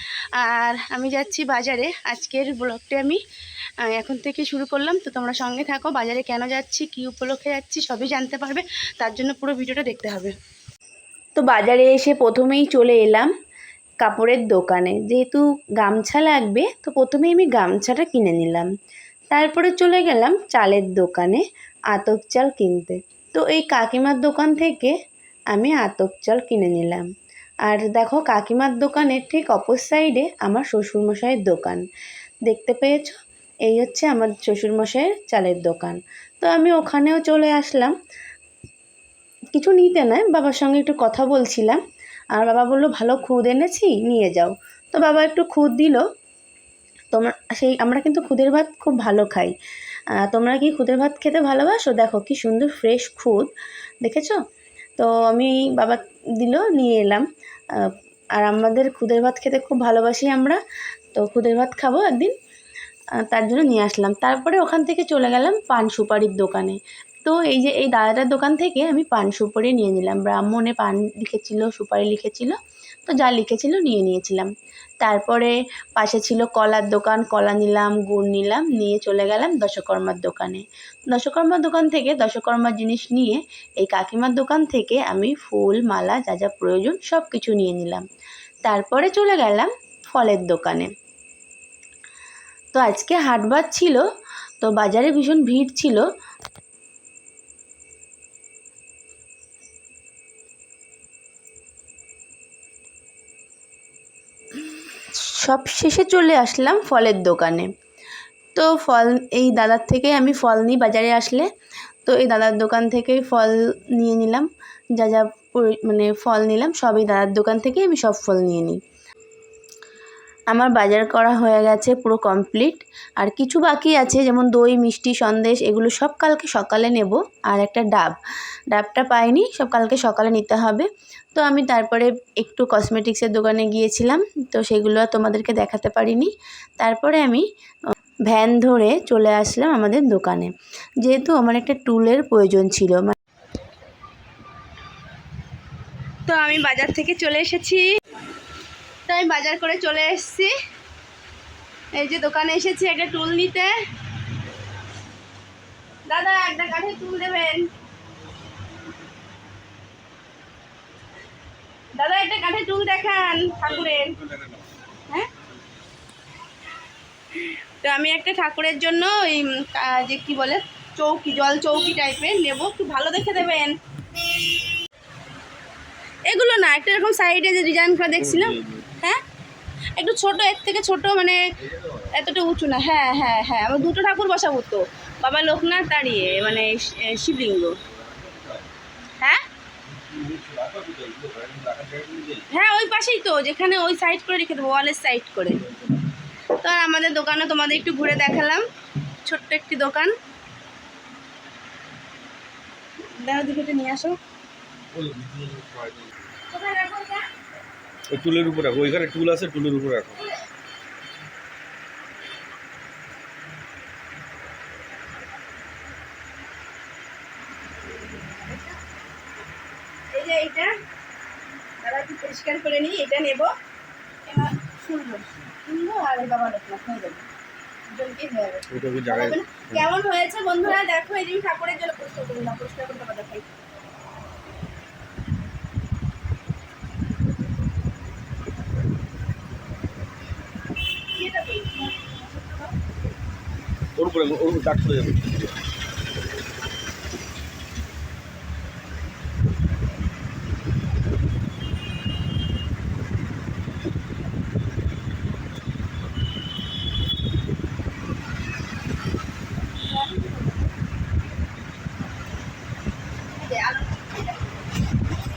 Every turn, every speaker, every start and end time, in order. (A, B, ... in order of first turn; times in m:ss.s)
0:00.4-0:03.2 A
0:03.9-0:10.4 A
0:11.4-0:13.3 A
0:14.0-0:18.7 A
0:19.3-0:25.0 A
0:25.5-0:27.1 A
0:27.7-0:31.8 A
0:32.5-0:37.9 A
0:39.5-0:41.8 A
0:42.3-0:46.0 A
0:47.1-0:49.5 A
0:50.2-0:53.5 A
0:54.0-0:54.4 A
0:55.0-1:00.6 A
1:01.1-1:02.4 A
1:03.2-1:14.5 A
1:15.0-1:28.0 A
1:28.6-1:30.9 A
1:32.7-1:34.1 A
1:34.6-1:36.1 A
1:45.2-1:47.7 A
1:48.6-1:51.5 A
1:52.1-1:58.8 A
2:00.5-2:08.2 A
2:08.7-2:17.4 A
2:18.3-2:23.2 A
2:26.3-2:28.0 A
2:29.1-2:30.5 A
2:31.9-2:33.8 A
2:36.1-2:37.7 A
2:42.0-2:44.2 A
2:43.6-2:44.7 B
2:47.4-2:53.8 A
2:56.3-2:59.2 A
2:58.2-2:58.9 B
3:00.0-3:01.4 A
3:01.6-3:02.2 B
3:02.1-3:07.8 A
3:07.8-3:08.7 B
3:09.9-3:12.5 B
3:12.5-3:15.6 A
3:16.6-3:18.6 A
3:19.2-3:20.1 A
3:23.0-3:24.2 A
3:24.9-3:26.1 B
3:26.5-3:27.3 A
3:28.1-3:30.3 B
3:38.1-3:38.8 A
3:40.1-3:40.7 A
3:41.8-3:43.5 A
3:44.3-3:47.3 A
3:47.9-3:53.5 A
3:48.7-3:49.9 B
4:01.1-4:02.8 A
4:04.0-4:05.6 B
4:19.7-4:20.6 A
4:23.4-4:24.6 A